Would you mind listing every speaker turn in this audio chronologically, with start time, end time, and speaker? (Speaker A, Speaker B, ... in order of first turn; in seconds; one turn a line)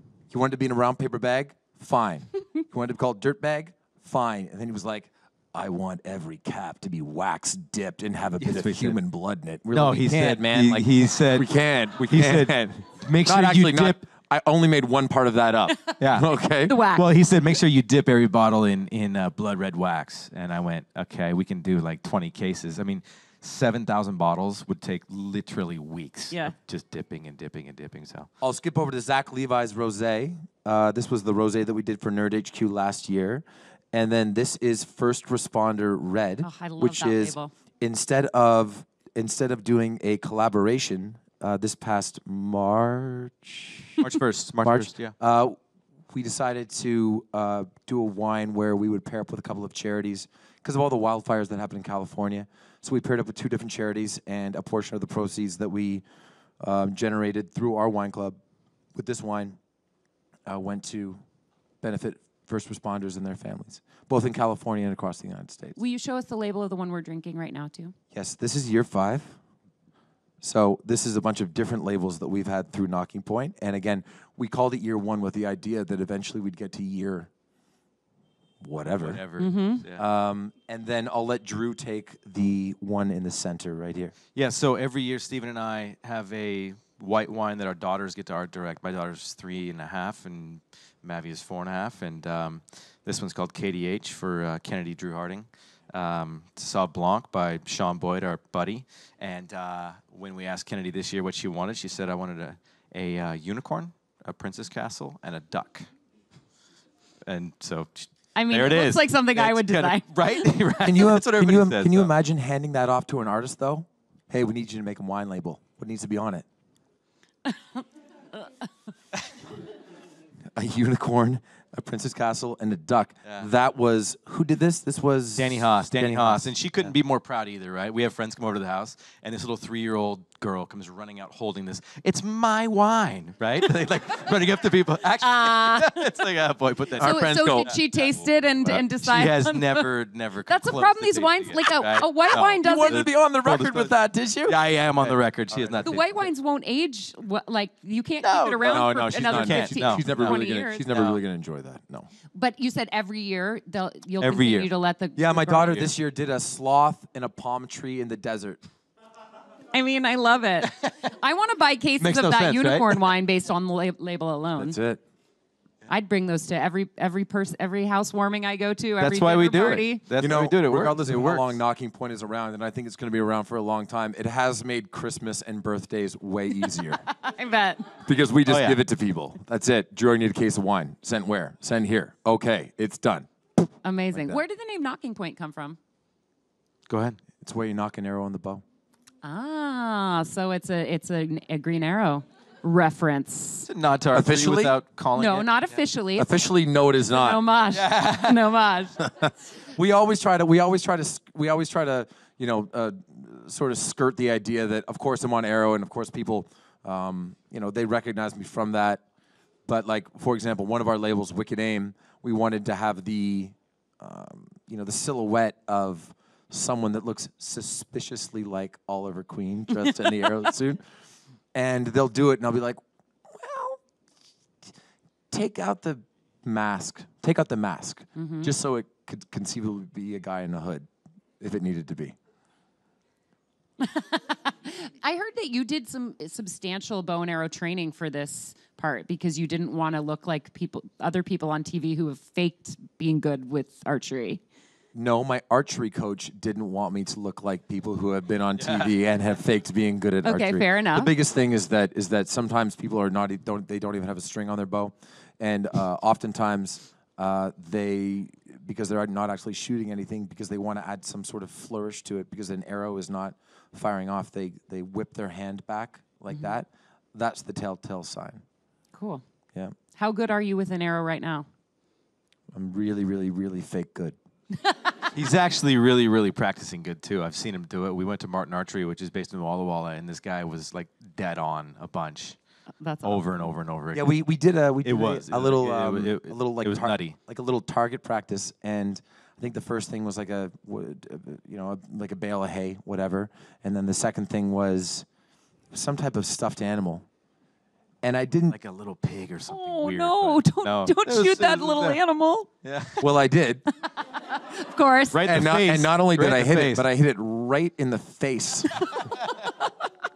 Speaker A: 0.3-16.8
Speaker B: 8.4-9.0
Speaker B: 9.7-14.0
Speaker B: 16.0-16.3
Speaker C: 16.6-17.1
Speaker B: 16.9-28.3
Speaker A: 28.4-44.0
Speaker C: 36.4-37.5
Speaker B: 44.0-45.1
Speaker A: 44.6-45.6
Speaker A: 46.1-56.0
Speaker A: 56.6-58.4
Speaker A: 58.9-59.6
Speaker A: 60.5-61.2
Speaker A: 61.8-65.8
Speaker C: 65.8-67.9
Speaker A: 68.1-69.4
Speaker A: 70.4-77.3
Speaker A: 78.6-79.2
Speaker B: 78.9-80.0
Speaker C: 79.4-79.8
Speaker A: 79.9-84.1
Speaker B: 84.3-105.9
Speaker B: 107.2-112.1
Speaker C: 108.3-110.0
Speaker A: 110.8-116.4
Speaker A: 120.5-126.9
Speaker B: 125.4-146.2
Speaker C: 135.2-136.1
Speaker A: 137.0-137.7
Speaker C: 137.0-139.9
Speaker C: 140.5-143.0
Speaker A: 142.3-146.0
Speaker C: 145.8-150.8
Speaker B: 148.2-151.2
Speaker A: 148.6-152.1
Speaker C: 152.3-155.9
Speaker B: 154.2-154.7
Speaker A: 155.2-158.6
Speaker C: 159.7-164.8
Speaker A: 162.0-162.8
Speaker A: 164.6-165.0
Speaker C: 165.9-170.0
Speaker B: 169.0-171.5
Speaker A: 170.2-177.1
Speaker C: 177.1-177.9
Speaker A: 178.0-183.3
Speaker B: 178.4-178.8
Speaker C: 183.8-185.8
Speaker A: 184.1-184.4
Speaker B: 186.9-187.2
Speaker A: 187.4-188.6
Speaker C: 189.2-193.6
Speaker B: 193.6-195.8
Speaker A: 194.1-194.8
Speaker C: 195.2-196.3
Speaker A: 196.2-197.4
Speaker C: 197.1-199.0
Speaker B: 197.7-198.4
Speaker A: 199.1-209.0
Speaker A: 209.7-220.8
Speaker A: 221.5-223.8
Speaker A: 225.3-230.9
Speaker C: 228.2-228.5
Speaker A: 231.4-232.2
Speaker C: 233.8-244.4
Speaker A: 244.9-268.4
Speaker B: 248.6-248.9
Speaker C: 250.2-251.1
Speaker C: 268.9-269.2
Speaker C: 269.9-271.5
Speaker A: 272.5-274.1
Speaker B: 275.1-282.4
Speaker C: 282.8-283.4
Speaker B: 283.0-284.1
Speaker A: 283.9-295.1
Speaker B: 284.8-287.2
Speaker A: 295.7-297.1
Speaker A: 298.0-298.6
Speaker B: 298.5-302.0
Speaker C: 299.5-302.5
Speaker B: 302.6-303.1
Speaker A: 303.0-303.6
Speaker C: 304.3-305.2
Speaker B: 305.1-306.8
Speaker A: 305.2-308.8